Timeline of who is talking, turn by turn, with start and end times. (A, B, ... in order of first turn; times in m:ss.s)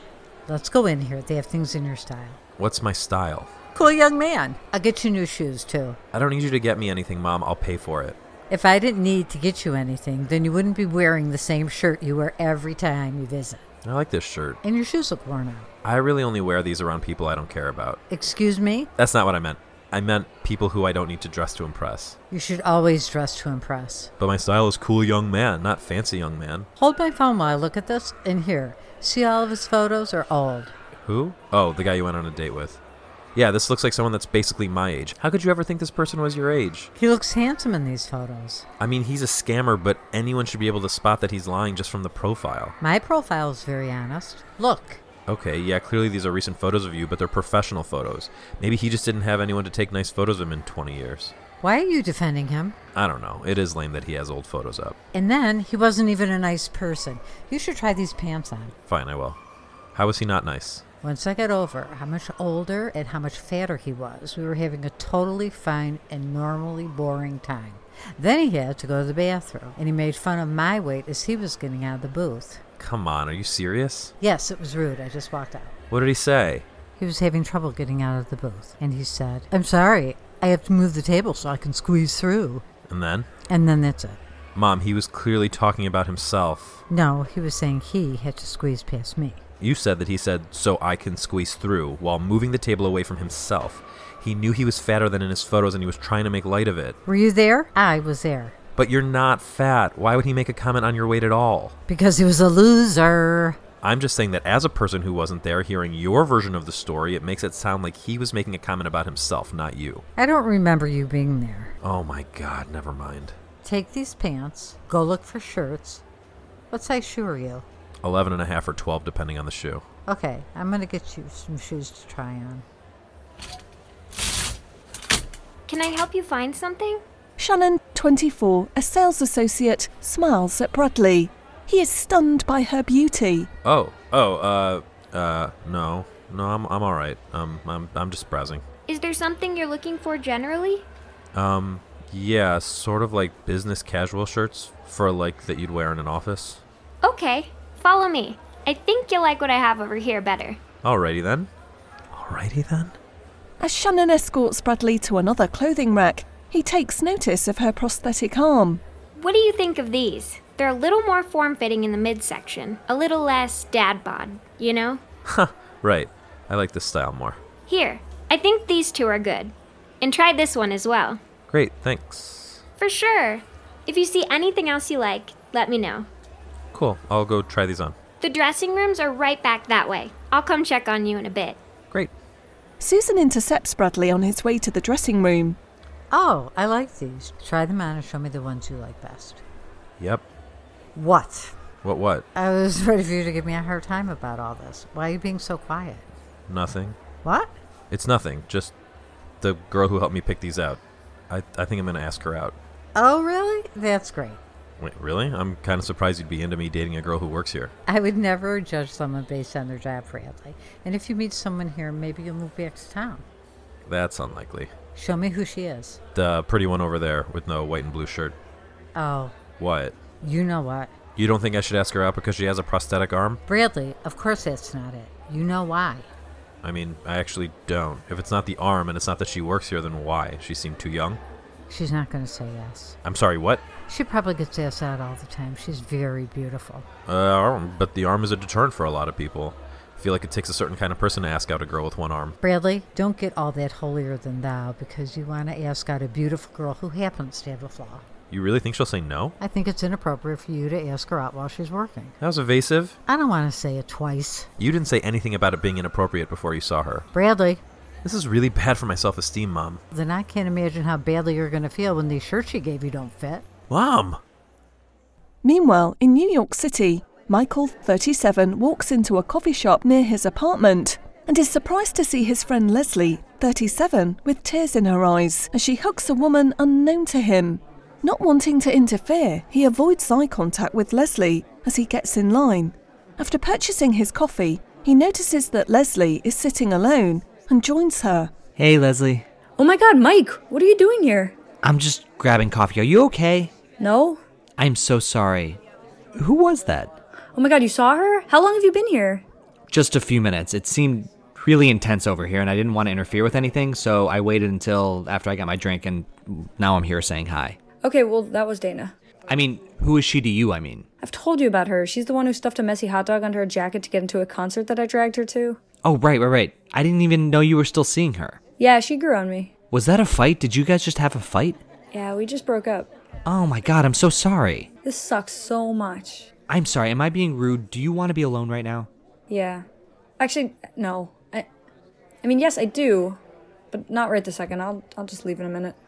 0:00.5-0:02.4 A
0:02.6-0:03.5 B
0:03.7-0:06.0 A
0:06.1-0:08.2 B
0:08.5-0:13.6 A
0:13.8-0:14.6 B
0:14.6-0:15.7 A
0:15.8-0:18.0 B
0:18.1-0:18.9 A
0:19.0-0:22.2 B
0:22.3-0:24.1 A
0:24.2-0:26.7 B
0:26.8-0:30.7 A
0:30.9-0:32.8 B
0:33.3-0:36.9 B
0:37.0-0:38.6 A
0:38.8-0:42.8 B
0:42.8-0:45.0 A
0:45.3-0:51.3 B
0:51.6-0:52.8 A
0:52.9-0:55.0 B
0:55.1-0:58.7 A
0:58.9-0:59.4 B
0:59.9-1:00.8 B
1:01.0-1:12.6 A
1:12.8-1:14.1 B
1:14.2-1:15.8 A
1:15.9-1:16.6 B
1:16.9-1:22.6 A
1:22.9-1:23.3 B
1:23.5-1:24.2 A
1:24.5-1:26.8 B
1:26.9-1:29.4 A
1:29.6-1:37.0 B
1:37.0-1:38.5 A
1:38.8-1:41.7 B
1:41.9-1:43.6 A
1:43.8-1:50.0 B
1:50.2-1:51.7 A
1:51.8-1:53.4 B
1:53.6-1:56.0 A
1:56.7-1:57.6 A
1:58.0-1:59.8 B
2:00.0-2:02.6 A
2:05.7-2:07.0 C
2:07.4-2:13.5 D
2:13.6-2:18.6 B
2:18.9-2:20.9 C
2:21.3-2:26.6 B
2:27.0-2:30.6 C
2:30.8-2:31.5 B
2:32.1-2:33.0 B
2:33.6-2:38.8 D
2:39.2-2:45.0 C
2:45.3-2:47.4 B
2:47.7-2:51.2 C
2:51.5-2:52.6 B
2:52.8-2:56.1 C
2:56.7-2:58.0 B
2:58.2-3:01.6 C
3:02.8-3:05.6 D
3:06.1-3:09.4 A
3:10.9-3:11.5 A
3:11.8-3:12.2 B
3:12.3-3:16.0 A
3:16.5-3:17.0 B
3:17.2-3:17.5 A
3:17.9-3:18.7 B
3:19.4-3:22.6 B
3:22.9-3:24.4 A
3:24.8-3:27.7 B
3:27.8-3:33.2 A
3:33.9-3:34.7 B
3:34.9-3:36.0 A
3:36.1-3:38.4 B
3:38.9-3:39.3 A
3:39.6-3:40.0 B
3:40.2-3:40.9 A
3:41.2-3:43.4 B
3:43.4-3:46.1 A
3:46.6-3:51.2 B
3:51.7-3:53.0 A
3:53.0-3:53.6 B
3:53.9-3:56.8 A
3:57.1-4:02.4 B
4:02.4-4:08.0 A
4:08.3-4:09.3 B
4:09.4-4:12.1 A
4:12.2-4:13.0 B
4:13.1-4:14.5 A
4:14.6-4:17.0 B
4:17.1-4:17.6 A
4:18.0-4:19.8 B
4:19.9-4:23.4 A
4:23.7-4:24.2 B
4:25.4-4:48.3 D
4:48.6-4:49.2 E
4:49.6-4:51.4 F
4:51.6-4:53.5 E
4:53.8-4:54.2 F
4:54.6-4:55.6 E
4:56.2-4:56.9 E
4:57.3-4:59.2 F
4:59.7-5:07.6 E
5:07.8-5:08.9 F
5:09.3-5:10.9 E
5:11.0-5:15.6 F
5:15.8-5:18.4 E
5:18.6-5:19.5 F
5:19.7-5:21.6 E
5:21.9-5:22.9 F
5:23.3-5:24.7 E
5:24.8-5:26.3 F
5:26.5-5:28.9 E
5:29.3-5:29.6 F
5:30.2-5:31.5 F
5:32.2-5:33.2 F
5:33.7-5:35.8 F